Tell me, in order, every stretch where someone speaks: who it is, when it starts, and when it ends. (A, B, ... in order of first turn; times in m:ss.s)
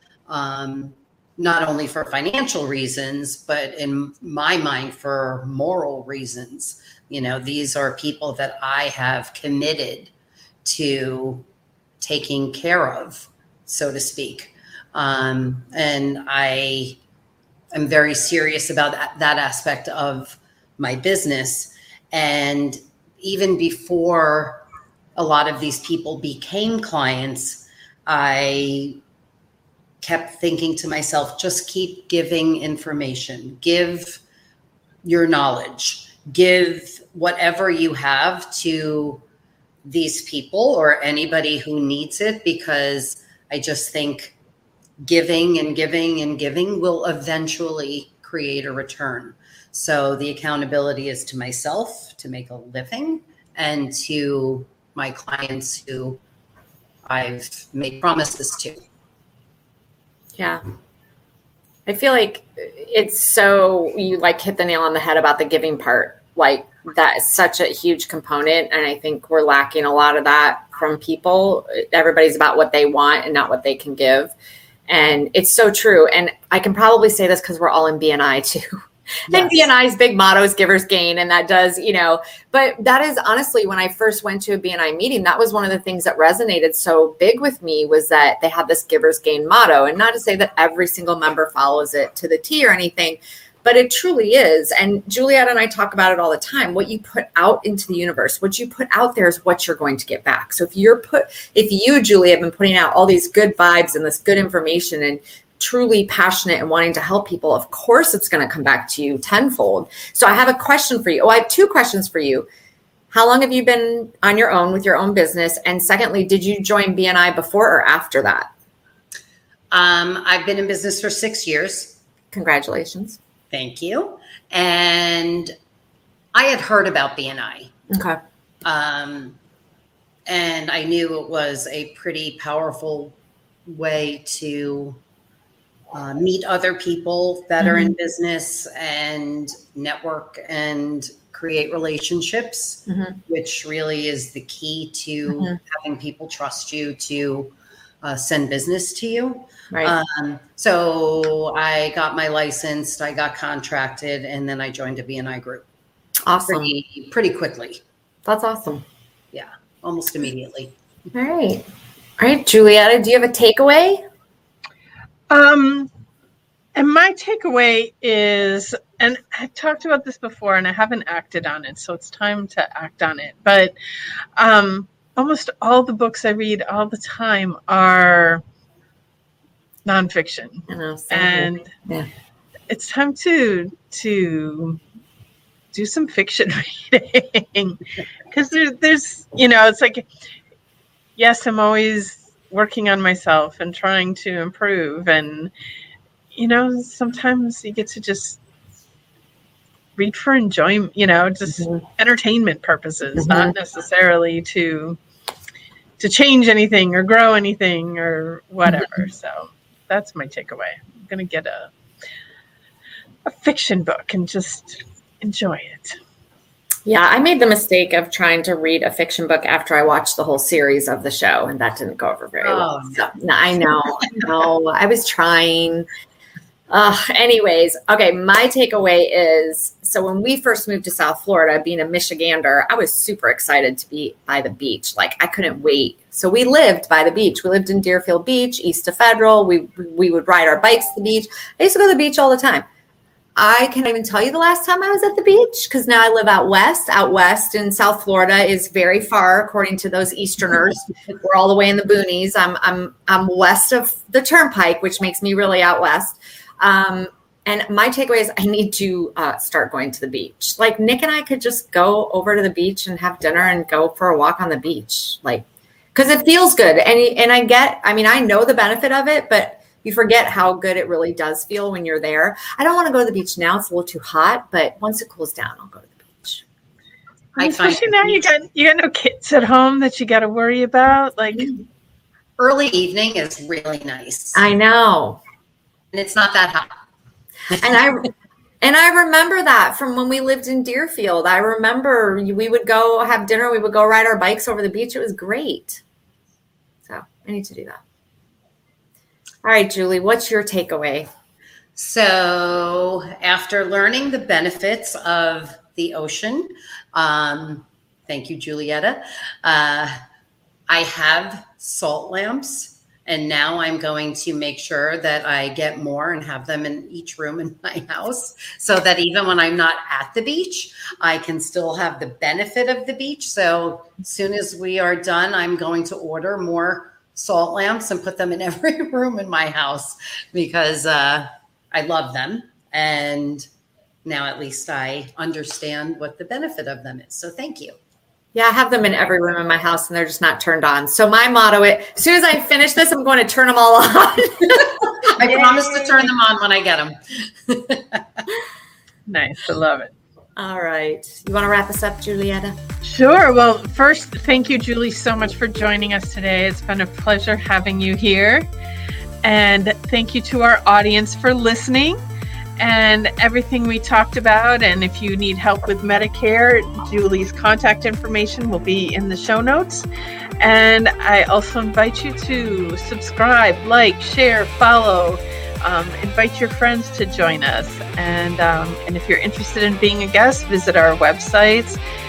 0:00.3-0:10.1 A
0:10.6-0:11.4 A
0:12.0-0:17.0 A
0:17.7-0:24.6 A
0:25.2-0:29.0 A
0:30.0-0:34.2 A
0:35.0-0:39.2 A
0:39.8-0:44.3 A
0:45.0-0:56.2 A
0:57.0-0:58.8 A
1:00.4-1:00.6 B
1:01.8-1:14.3 B
1:14.9-1:52.4 B
1:19.3-1:19.6 A
1:53.1-1:58.5 B
1:59.7-2:02.0 A
2:02.3-2:03.2 B
2:03.5-2:05.5 A
2:06.3-2:07.7 A
2:07.9-2:08.2 B
2:08.6-2:09.4 A
2:10.3-2:13.2 A
2:13.7-2:15.0 A
2:15.9-2:35.6 A
2:17.6-2:17.9 B
2:22.9-2:23.2 B
2:36.2-2:36.7 B
2:36.5-2:37.8 A
2:38.2-2:38.8 B
2:39.3-2:40.7 A
2:41.1-2:41.6 B
2:42.2-2:44.0 B
2:45.3-2:45.9 C
2:46.7-2:53.7 C
2:54.4-2:58.4 C
2:59.8-3:01.7 C
3:00.7-3:02.1 B
3:02.7-3:04.8 C
3:05.7-3:07.8 C
3:08.3-3:10.1 C
3:11.2-3:15.5 C
3:16.3-3:18.4 C
3:20.0-3:25.0 C
3:23.2-3:23.5 B
3:26.0-3:31.7 C
3:33.2-3:36.0 C
3:36.8-3:45.9 B
3:42.4-3:43.1 A
3:46.7-4:02.6 B
4:03.4-4:36.4 B
4:37.4-4:38.3 A
4:37.4-4:41.5 C
4:42.4-4:44.4 A
4:44.3-4:45.2 B
4:45.9-4:46.7 A
4:47.5-4:48.1 B
4:48.6-4:55.8 B
4:56.8-4:57.8 B
4:59.4-5:01.1 B
5:01.8-5:09.9 A
5:10.7-5:33.4 A
5:34.0-5:37.8 A
5:38.3-5:46.0 B
5:45.1-5:48.2 A
5:49.1-5:49.9 C
5:50.4-5:52.6 B
5:52.8-5:58.5 C
5:59.2-6:02.0 C
6:02.6-6:09.8 C
6:10.4-6:21.8 C